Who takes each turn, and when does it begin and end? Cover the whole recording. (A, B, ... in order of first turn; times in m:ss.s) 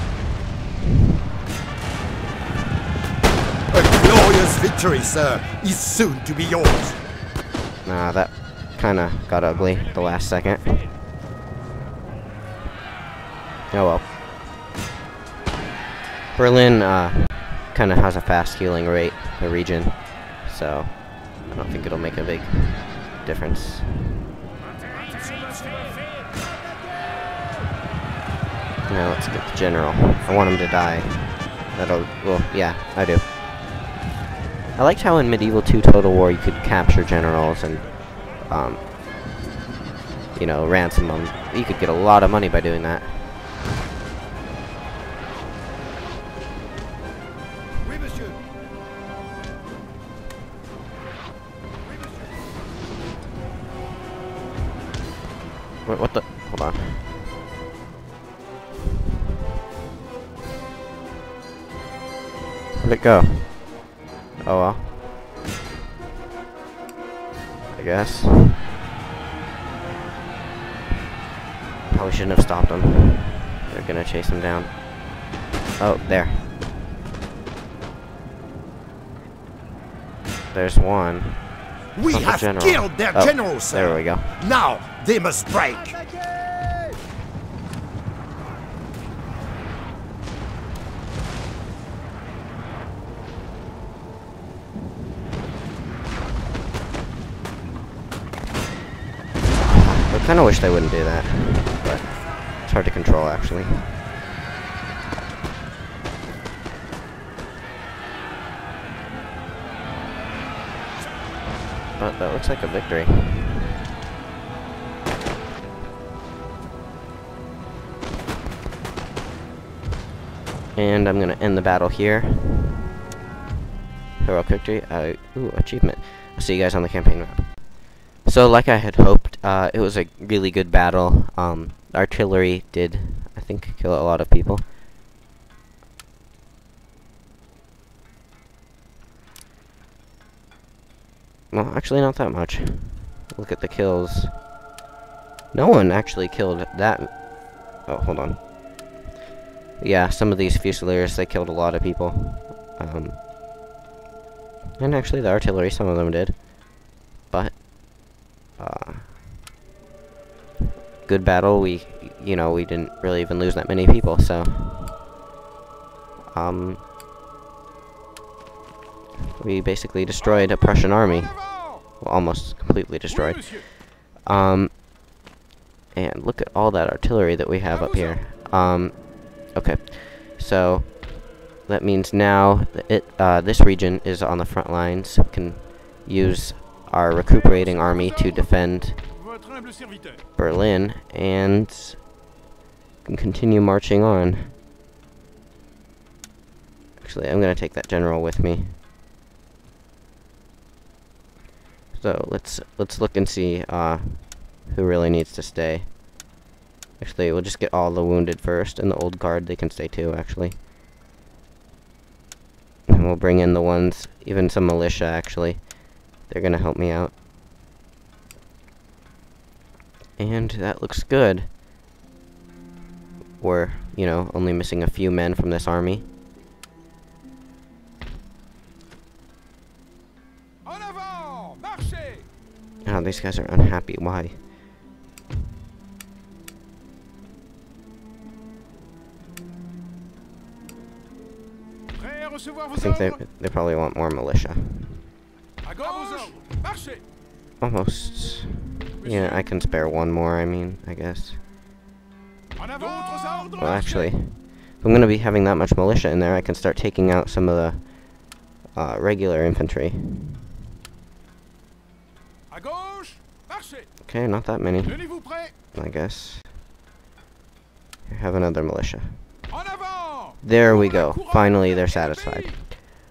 0:03.7-0:07.0 A
0:07.8-0:10.9 B
0:13.7-0:14.0 B
0:16.3-0:24.2 B
0:28.9-0:33.4 B
0:34.7-0:38.9 B
0:40.3-0:43.2 B
0:55.8-0:57.1 B
1:02.8-1:03.6 B
1:04.4-1:05.0 B
1:07.7-1:08.6 B
1:11.9-1:14.8 B
1:15.8-1:16.5 B
1:20.5-1:24.3 B
1:21.9-1:26.0 A
1:39.6-1:44.0 B
1:52.0-1:53.7 B
2:00.7-2:02.9 B
2:04.2-2:14.7 B
2:21.5-2:24.4 B
2:25.5-2:28.5 B
2:29.8-2:33.2 B
2:34.8-2:39.2 B
2:41.0-2:45.0 B
2:46.3-2:46.8 B
2:49.4-2:54.8 B
2:50.2-2:51.8 C
2:53.1-2:53.7 C
2:55.9-3:09.0 B
2:57.7-2:58.2 C
3:07.3-3:10.2 C
3:10.4-3:12.1 B
3:13.0-3:14.5 B
3:17.0-3:18.8 B
3:21.9-3:26.0 B
3:27.0-3:30.6 B
3:32.9-3:37.1 B
3:40.2-3:41.5 B
3:43.4-3:46.1 B
3:50.6-3:52.3 C
3:52.8-3:54.4 B
4:02.0-4:03.2 C
4:02.7-4:05.1 B
4:05.6-4:07.0 C
4:07.6-4:11.4 B
4:09.0-4:09.4 C
4:12.6-4:14.1 C
4:13.6-4:20.4 B
4:22.5-4:23.9 C
4:24.0-4:26.5 B
4:24.8-4:25.5 C
4:28.1-4:29.3 B
4:29.5-4:32.6 C
4:30.4-4:32.8 B